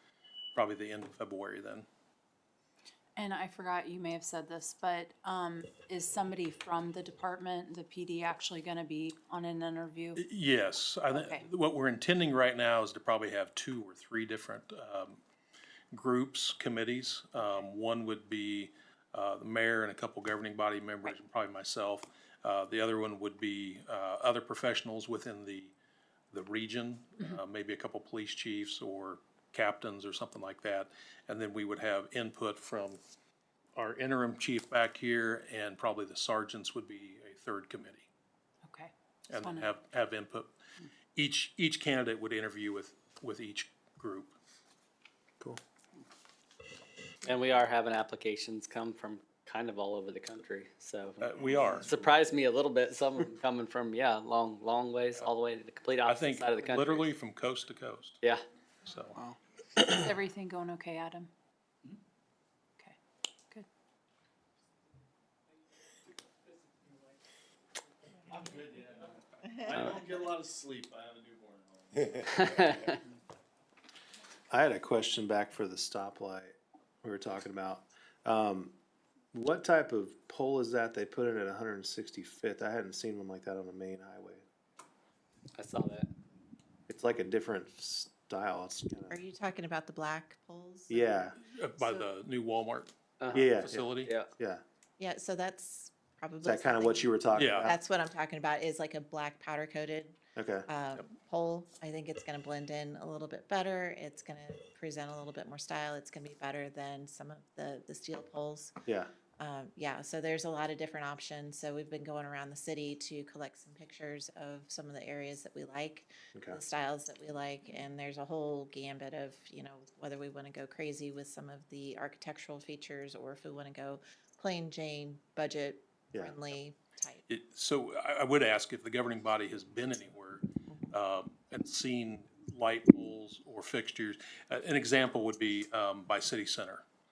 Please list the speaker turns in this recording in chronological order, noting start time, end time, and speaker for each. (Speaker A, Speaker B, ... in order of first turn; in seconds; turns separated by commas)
Speaker A: 0.5-1.9, Speaker B: 3.1-10.2, Speaker A: 10.2-15.2, Speaker B: 11.1-11.5, Speaker A: 15.9-25.7, Speaker A: 26.3-33.0, Speaker A: 33.8-38.1, Speaker B: 38.7-39.7, Speaker A: 39.3-40.5, Speaker A: 41.1-44.3, Speaker C: 47.2-57.1, Speaker A: 51.2-51.9, Speaker A: 56.0-58.2, Speaker A: 58.9-59.2, Speaker B: 59.8-61.3, Speaker D: 68.3-72.8, Speaker C: 69.7-70.0, Speaker C: 72.3-73.0, Speaker E: 74.5-78.7, Speaker E: 79.3-84.4, Speaker C: 85.5-86.1, Speaker E: 86.9-89.2, Speaker F: 89.1-92.1, Speaker E: 90.9-91.3, Speaker A: 91.4-94.1, Speaker C: 93.2-93.5, Speaker E: 93.3-94.6, Speaker C: 94.0-94.3, Speaker F: 95.0-108.7, Speaker E: 96.4-97.8, Speaker A: 97.3-97.7, Speaker E: 100.3-100.7, Speaker F: 109.4-127.2, Speaker E: 116.3-116.6, Speaker E: 126.1-126.4, Speaker A: 127.3-136.8